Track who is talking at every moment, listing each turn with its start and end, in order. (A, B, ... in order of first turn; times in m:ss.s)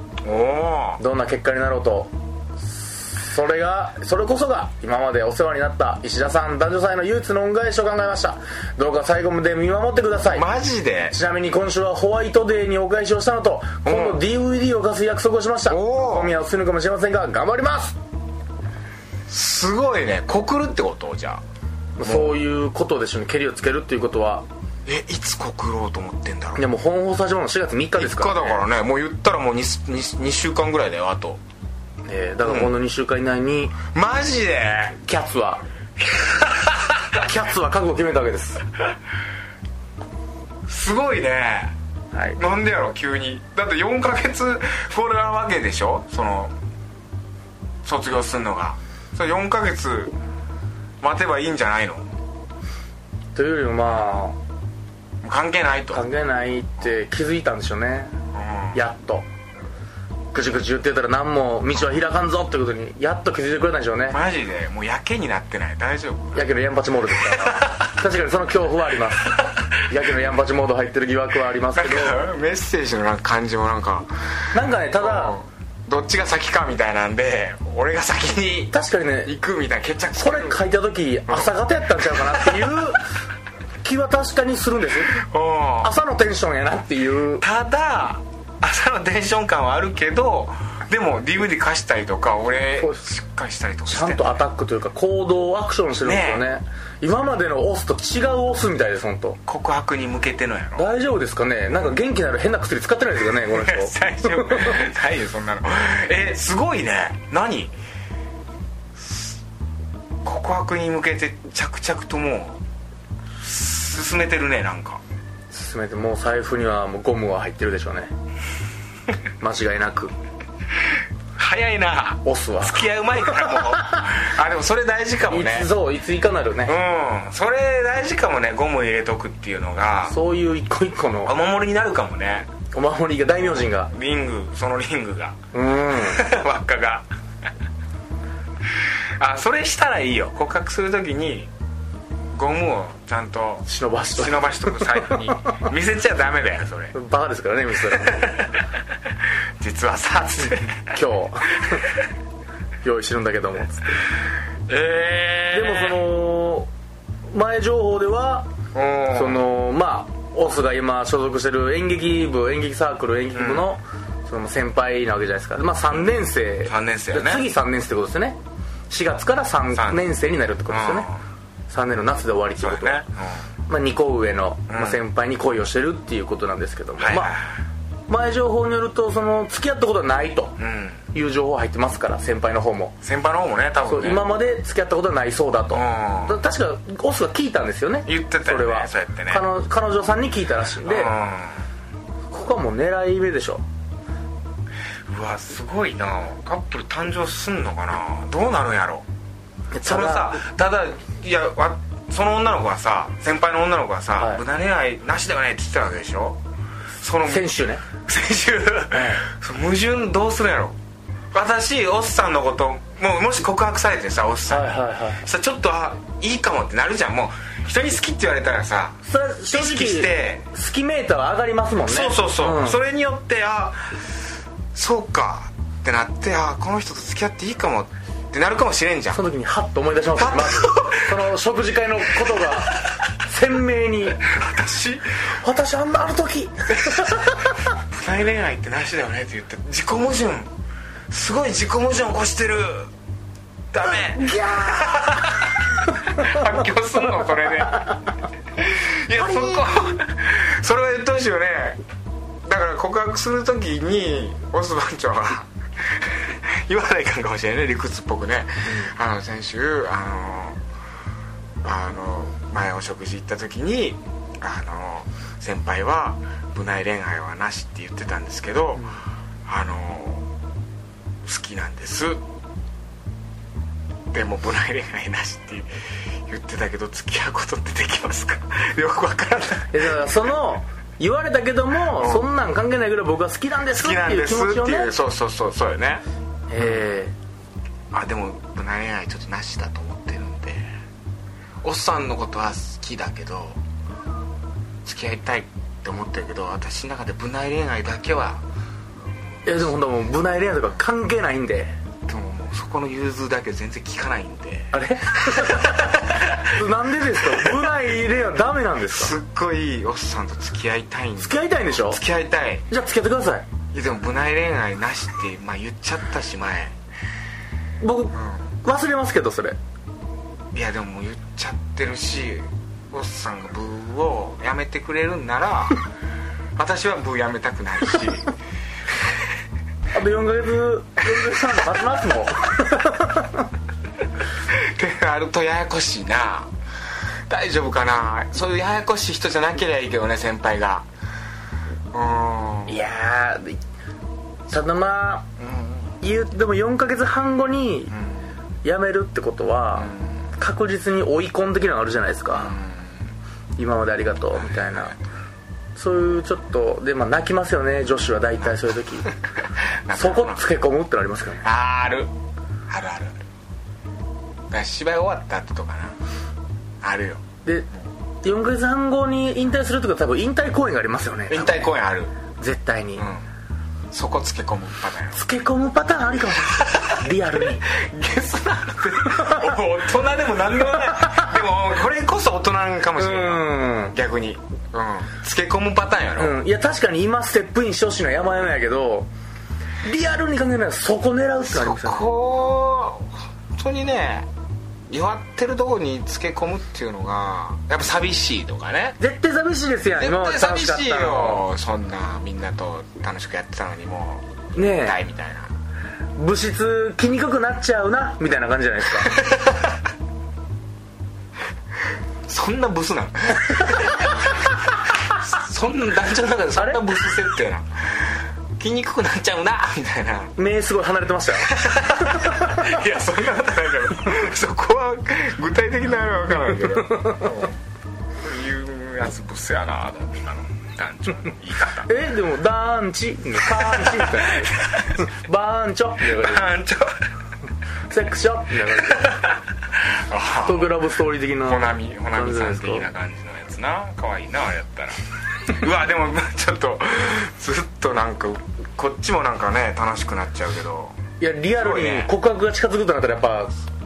0:00.2-0:01.0 A
0:01.0-0:10.5 B
0:10.3-0:11.2 A
0:11.1-0:18.0 B
0:13.8-0:14.2 A
0:15.7-0:16.3 A
0:19.3-0:21.4 A
0:22.0-0:24.5 B
0:22.0-0:22.4 A
0:24.9-0:26.6 A
0:26.6-0:28.6 B
0:28.0-0:31.4 A
0:32.1-0:33.8 B
0:32.4-0:32.7 A
0:33.9-0:35.0 A
0:35.0-0:35.6 B
0:36.0-0:37.0 A
0:37.1-0:38.6 B
0:40.7-0:41.8 A
0:42.1-0:42.4 B
0:42.4-0:46.5 A
0:47.8-0:50.1 A
0:51.0-0:52.1 A
0:53.4-0:54.4 B
0:55.2-0:56.0 A
0:55.9-0:58.2 B
0:58.3-0:58.8 A
0:58.7-0:59.3 B
1:00.3-1:04.2 B
1:04.1-1:06.5 A
1:06.4-1:12.2 B
1:07.4-1:07.7 A
1:09.3-1:09.6 A
1:11.7-1:14.1 A
1:14.5-1:15.4 B
1:14.9-1:18.7 A
1:18.7-1:19.3 B
1:19.2-1:20.6 A
1:20.2-1:23.0 B
1:21.3-1:21.5 A
1:22.1-1:22.8 A
1:23.8-1:25.2 B
1:25.1-1:25.9 A
1:25.8-1:27.4 B
1:27.4-1:34.4 A
1:33.9-1:39.4 B
1:36.0-1:36.4 A
1:39.5-1:40.9 A
1:40.8-1:44.8 B
1:43.5-1:47.8 A
1:49.0-1:49.4 A
1:50.2-1:52.6 A
1:53.4-1:55.0 A
1:55.5-1:58.1 B
1:59.4-2:00.1 B
2:01.4-2:05.7 A
2:02.2-2:02.9 B
2:05.3-2:06.8 B
2:06.6-2:10.2 A
2:10.1-2:11.3 B
2:11.2-2:12.5 A
2:12.7-2:13.9 B
2:13.9-2:15.4 A
2:15.5-2:16.2 B
2:15.9-2:17.0 A
2:19.2-2:21.5 A
2:22.3-2:26.9 A
2:23.7-2:25.4 B
2:26.9-2:28.3 B
2:28.1-2:28.7 A
2:29.6-2:30.9 A
2:30.9-2:31.8 B
2:32.8-2:34.0 B
2:34.7-2:36.0 A
2:35.5-2:36.7 B
2:37.3-2:38.5 B
2:38.7-2:39.4 A
2:39.1-2:48.4 B
2:43.3-2:43.7 A
2:46.6-2:47.4 A
2:48.9-2:51.1 B
2:49.7-2:50.0 A
2:50.7-2:51.2 A
2:51.7-2:53.0 B
2:52.6-2:53.4 A
2:53.7-2:57.3 B
2:54.7-2:55.0 A
2:57.0-2:57.6 A
2:58.1-3:00.6 B
3:00.6-3:01.0 A
3:01.1-3:03.0 B
3:03.0-3:04.3 A
3:03.9-3:11.2 B
3:05.7-3:06.4 A
3:08.1-3:09.4 A
3:10.8-3:11.6 A
3:12.3-3:13.6 B
3:15.1-3:19.0 A
3:19.7-3:20.4 B
3:19.8-3:26.4 A
3:27.0-3:30.8 A
3:27.3-3:27.8 B
3:28.9-3:29.2 B
3:31.3-3:40.5 A
3:34.5-3:35.2 B
3:39.1-3:42.8 B
3:41.9-3:44.0 A
3:44.7-3:49.2 A
3:49.1-3:54.2 B
3:50.2-3:51.2 A
3:52.6-3:53.0 A
3:54.2-3:55.1 A
3:55.4-3:57.6 B
3:56.7-4:00.5 A
4:01.1-4:02.9 A
4:03.7-4:08.0 A
4:03.8-4:05.4 B
4:07.2-4:07.9 B
4:08.6-4:11.8 A
4:09.2-4:09.6 B
4:12.4-4:20.6 A
4:21.6-4:28.9 A
4:29.5-4:30.2 A
4:31.2-4:32.2 A
4:34.1-4:35.8 A
4:36.3-4:40.1 A
4:39.7-4:44.9 B
4:42.0-4:42.3 A
4:43.7-4:46.0 A
4:46.5-4:47.1 B
4:47.9-4:50.7 A
4:51.6-4:53.6 A
4:54.8-4:58.4 A
4:59.4-5:01.8 B
5:02.1-5:06.6 A
5:04.7-5:09.1 B
5:07.3-5:07.7 A
5:08.9-5:12.7 A
5:11.2-5:12.0 B
5:12.7-5:13.5 B
5:13.7-5:16.8 A
5:17.8-5:19.6 B
5:18.1-5:18.5 A
5:20.5-5:25.8 A
5:26.6-5:28.4 A
5:29.9-5:33.5 B
5:34.5-5:36.5 A
5:37.3-5:40.9 A
5:41.9-5:42.8 A
5:42.7-5:43.6 B
5:44.5-5:45.3 B
5:45.4-5:46.0 A
5:46.0-5:47.9 B
5:48.0-5:48.2 A
5:48.6-5:52.6 B
5:49.8-5:50.2 A
5:52.3-5:53.0 A
5:53.6-5:55.0 B
5:55.8-5:59.1 B
5:59.6-6:00.4 A
5:59.9-6:01.4 B
6:01.4-6:02.1 A
6:02.7-6:03.2 A
6:04.5-6:06.0 A
6:06.8-6:07.2 A
6:08.2-6:11.7 B
6:11.3-6:12.1 A
6:12.4-6:13.0 B
6:13.0-6:13.2 A
6:13.9-6:15.2 A
6:15.1-6:17.6 B
6:16.6-6:17.0 A
6:17.7-6:26.4 A
6:19.0-6:19.6 B
6:20.6-6:21.4 B
6:23.0-6:24.0 B
6:26.2-6:29.1 B
6:29.8-6:32.1 B
6:31.5-6:34.3 A
6:34.9-6:39.0 A
6:39.0-6:41.4 B
6:40.0-6:45.5 A
6:44.6-6:45.0 B
6:46.2-6:49.1 B
6:49.2-6:49.7 A
6:52.3-7:00.4 A
6:56.6-6:56.8 B
7:00.4-7:02.8 B
7:01.4-7:07.6 A
7:08.2-7:11.9 A
7:11.8-7:14.5 B
7:13.5-7:15.1 A
7:15.0-7:16.5 B
7:16.1-7:17.0 A
7:17.9-7:19.2 B
7:18.9-7:20.8 A
7:20.4-7:22.9 B
7:21.4-7:31.0 A
7:31.2-7:33.5 B
7:31.6-7:32.1 A